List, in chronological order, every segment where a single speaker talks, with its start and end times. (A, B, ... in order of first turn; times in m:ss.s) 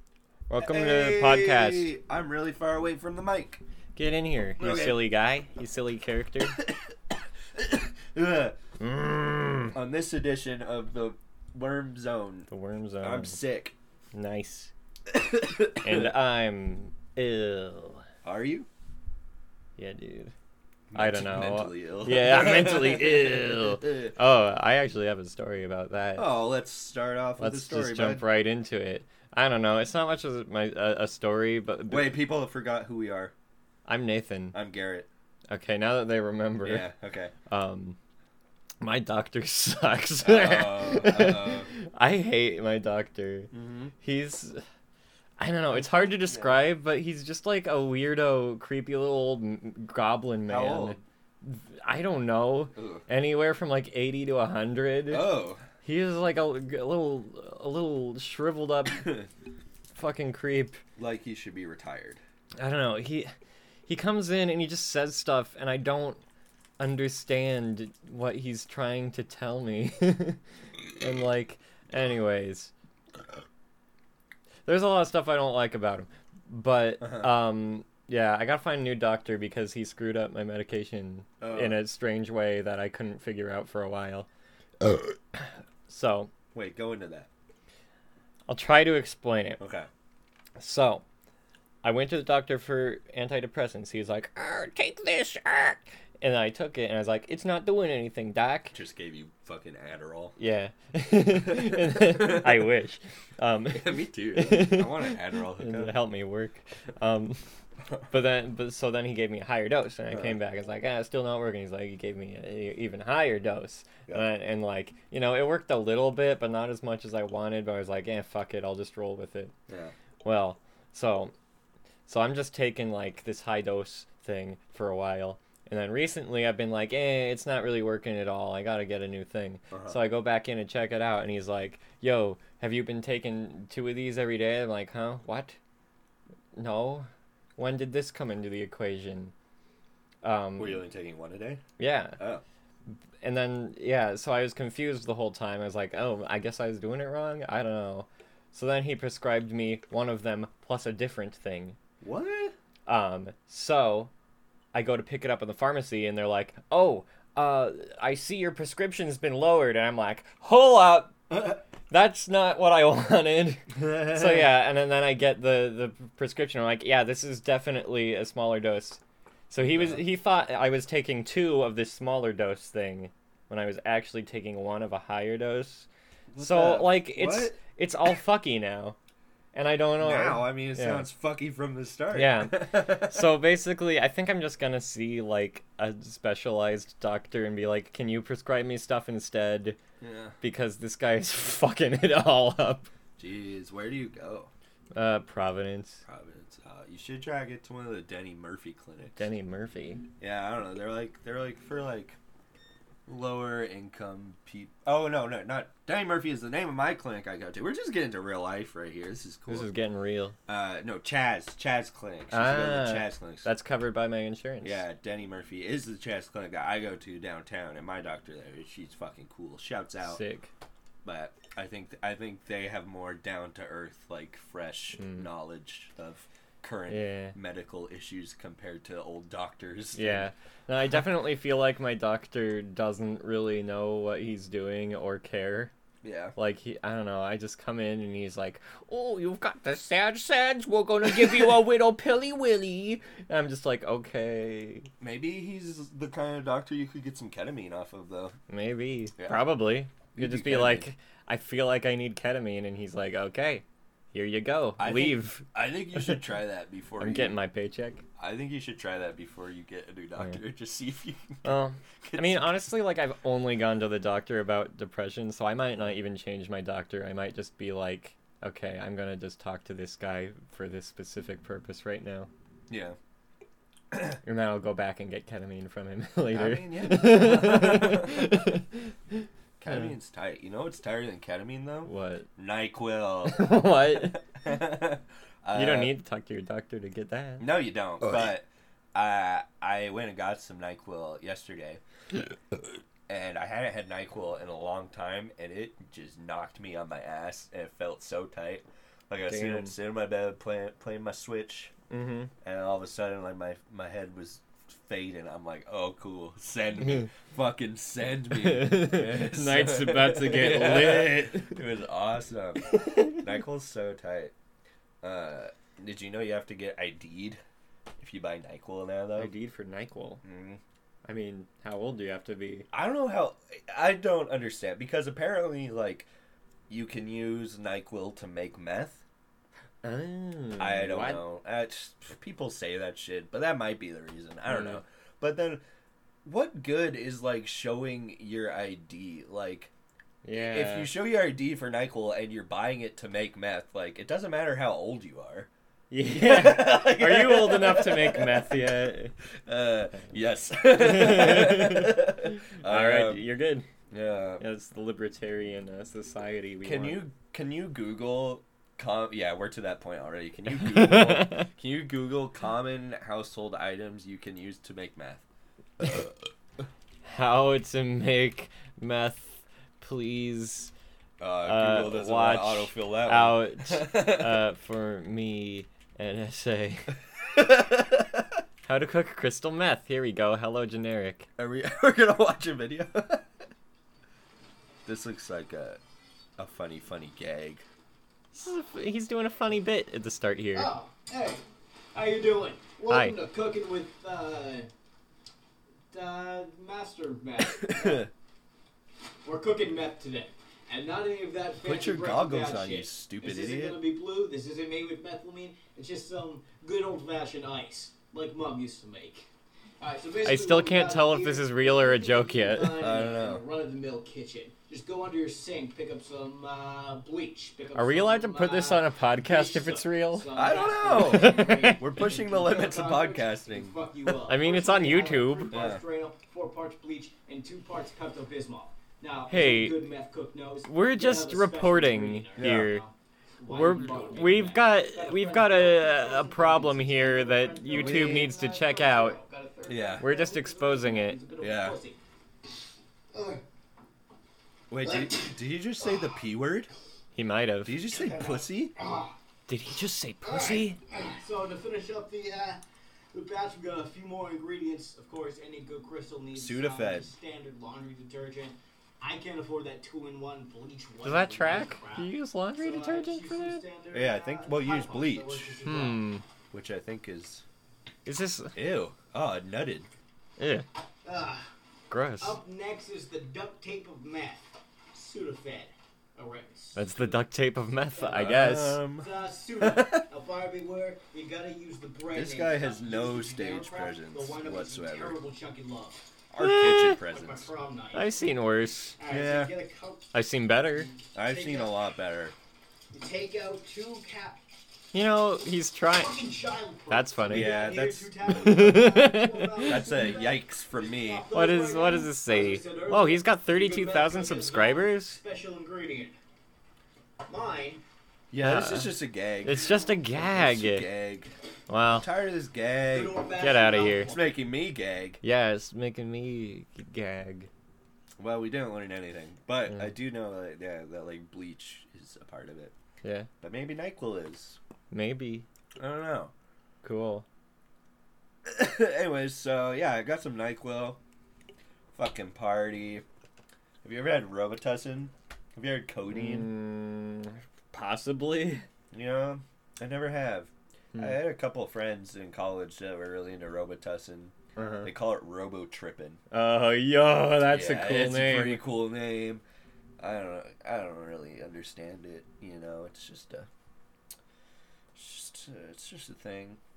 0:00.5-0:01.9 A
0:00.6-0:03.6 B
0:04.0-0:06.6 A
0:04.6-0:05.0 B
0:06.6-0:08.6 B
0:08.8-0:09.7 A
0:09.7-0:12.5 B
0:12.5-0:13.4 A
0:13.0-0:13.7 B
0:14.1-0:14.7 A
0:15.1-0:16.1 B
0:15.8-0:18.0 A
0:18.2-0:18.7 B
0:19.8-0:20.3 A
0:20.9-0:24.1 B
0:20.9-0:26.3 A
0:26.2-0:28.3 B
0:27.4-0:32.2 A
0:31.9-0:33.3 B
0:33.8-0:34.6 A
0:34.5-0:35.1 B
0:35.5-0:36.9 A
0:36.6-0:37.3 B
0:37.5-0:38.0 A
0:38.8-0:44.6 A
0:40.2-0:41.7 B
0:43.5-0:43.9 B
0:45.4-0:55.3 A
0:45.7-0:46.6 B
0:50.5-0:51.0 B
0:52.7-0:53.0 B
0:55.1-0:55.6 B
0:55.8-0:59.1 A
0:59.0-0:59.3 B
0:59.9-1:00.8 A
1:01.0-1:02.2 B
1:02.6-1:03.3 A
1:03.9-1:06.2 A
1:06.8-1:10.4 A
1:10.9-1:12.7 A
1:14.6-1:24.3 A
1:17.0-1:17.3 B
1:21.4-1:21.8 B
1:25.4-1:26.3 A
1:26.5-1:27.3 B
1:28.5-1:29.6 A
1:29.6-1:29.9 B
1:30.6-1:31.0 A
1:31.8-1:38.7 A
1:38.7-1:40.3 B
1:40.4-1:47.4 A
1:41.4-1:42.7 B
1:43.7-1:45.9 B
1:48.1-1:59.5 A
1:50.1-1:50.4 B
1:59.7-1:59.9 B
2:00.2-2:01.3 A
2:02.1-2:15.6 A
2:09.7-2:10.0 B
2:16.5-2:19.3 A
2:20.2-2:20.8 A
2:20.6-2:21.6 B
2:21.8-2:22.2 A
2:22.2-2:22.4 B
2:23.2-2:31.8 A
2:32.0-2:32.5 B
2:32.8-2:34.1 A
2:34.7-2:55.9 A
2:41.3-2:41.6 B
2:43.7-2:44.6 B
2:49.6-2:50.0 B
2:56.3-2:57.6 B
2:56.4-2:59.0 A
2:59.5-3:01.1 A
3:00.0-3:03.3 B
3:02.1-3:09.8 A
3:10.0-3:10.4 B
3:10.4-3:12.9 A
3:13.2-3:14.5 B
3:14.9-3:16.0 A
3:16.0-3:19.2 B
3:19.2-3:20.0 A
3:20.2-3:22.2 B
3:23.1-3:29.7 B
3:29.5-3:30.4 A
3:30.5-3:33.5 B
3:32.3-3:34.8 A
3:34.6-3:40.2 B
3:40.0-3:40.5 A
3:41.0-3:50.2 B
3:45.0-3:45.3 A
3:46.9-3:47.4 A
3:49.9-3:55.7 A
3:56.0-3:56.3 B
3:56.4-4:04.9 A
4:05.0-4:08.4 B
4:08.5-4:16.2 A
4:09.2-4:09.4 B
4:10.1-4:10.9 B
4:14.8-4:17.4 B
4:17.0-4:18.0 A
4:18.2-4:21.5 B
4:21.4-4:32.3 A
4:22.0-4:22.5 B
4:32.7-4:33.0 B
4:33.9-4:34.2 B
4:34.2-4:39.9 A
4:36.3-4:38.4 B
4:39.6-4:45.9 B
4:41.8-4:42.3 A
4:43.2-4:44.2 A
4:45.5-4:47.5 A
4:47.4-4:51.8 B
4:53.1-5:01.7 B
4:59.2-4:59.7 A
5:01.9-5:02.3 A
5:02.4-5:14.3 B
5:06.8-5:07.1 A
5:08.3-5:11.6 A
5:15.0-5:17.4 B
5:18.0-5:19.3 B
5:19.2-5:20.2 A
5:20.2-5:20.6 B
5:21.0-5:22.7 A
5:22.7-5:26.1 B
5:26.7-5:29.0 B
5:29.8-5:31.2 A
5:30.6-5:35.6 B
5:34.5-5:34.8 A
5:36.2-5:39.7 B
5:40.2-5:40.9 A
5:40.3-5:45.5 B
5:45.9-5:49.1 A
5:46.1-5:48.7 B
5:49.4-5:53.2 B
5:50.7-5:53.7 A
5:53.9-5:54.4 B
5:54.4-5:57.0 A
5:56.6-6:05.2 B
6:00.4-6:01.5 A
6:05.8-6:06.1 B
6:07.0-6:10.7 A
6:11.2-6:14.4 B
6:11.4-6:16.9 A
6:17.3-6:18.4 B
6:18.6-6:21.3 A
6:21.4-6:23.3 B
6:24.8-6:25.8 B
6:26.4-6:27.6 B
6:28.4-6:30.7 A
6:30.5-6:31.4 C
6:31.9-6:34.7 C
6:32.9-6:33.2 A
6:35.9-6:38.1 C
6:37.5-6:38.1 B
6:39.2-6:49.3 C
6:41.6-6:43.8 B
6:49.8-7:22.0 C
6:50.2-6:52.8 A
6:52.8-6:53.4 B
6:57.7-7:01.8 A
7:00.3-7:03.8 B
7:04.3-7:05.6 A
7:05.5-7:05.8 B
7:09.3-7:09.8 A
7:10.6-7:12.8 A
7:12.4-7:12.7 B
7:13.5-7:19.2 A
7:17.7-7:18.3 B
7:19.7-7:20.1 B
7:20.0-7:21.2 A
7:21.4-7:21.8 B
7:23.1-7:23.4 C
7:24.7-7:26.7 B
7:24.8-7:25.3 C
7:25.8-7:26.1 C
7:27.1-7:27.8 A
7:27.6-7:28.7 B
7:27.9-7:29.2 C
7:29.5-7:30.8 A
7:30.2-7:32.6 C
7:33.1-7:46.2 C
7:36.3-7:37.1 B
7:41.0-7:43.6 A
7:43.9-7:45.6 B
7:45.6-7:46.2 A
7:46.5-7:47.4 B
7:48.0-7:48.5 A
7:48.5-7:49.9 B
7:50.4-7:50.6 A
7:51.0-7:51.5 C
7:51.9-7:52.4 A
7:52.2-7:56.8 C
7:56.7-7:58.8 A
7:58.0-8:06.0 C
7:58.1-8:00.0 B
8:02.1-8:05.2 B
8:06.3-8:08.0 B
8:06.4-8:07.0 A
8:06.8-8:08.2 C
8:07.9-8:09.0 A
8:09.0-8:10.1 C
8:09.1-8:09.5 B
8:10.1-8:10.9 A
8:10.8-8:11.7 C
8:11.1-8:12.3 B
8:12.9-8:14.4 C
8:14.9-8:16.2 A
8:15.9-8:26.2 C
8:16.9-8:17.6 A
8:17.3-8:18.1 B
8:18.2-8:19.8 A
8:19.6-8:21.3 B
8:21.3-8:25.2 A
8:27.2-8:27.8 C
8:28.3-8:31.3 B
8:28.4-8:30.9 A
8:31.7-8:32.1 A
8:31.9-8:33.2 B
8:32.9-8:34.3 C
8:33.4-8:34.1 A
8:34.1-8:35.2 B
8:35.2-8:37.5 A
8:38.2-8:42.7 B
8:43.0-8:43.3 A
8:43.4-8:44.6 B
8:44.9-8:45.4 A
8:45.8-8:46.3 B
8:46.8-8:47.2 A
8:48.4-8:51.0 B
8:51.9-8:53.0 B
8:53.8-8:56.5 B
8:56.1-8:58.6 A
8:58.9-9:06.2 B
9:00.9-9:01.2 A
9:04.6-9:04.9 A
9:06.3-9:08.6 A
9:07.5-9:09.4 B
9:10.0-9:13.5 B
9:14.9-9:16.6 B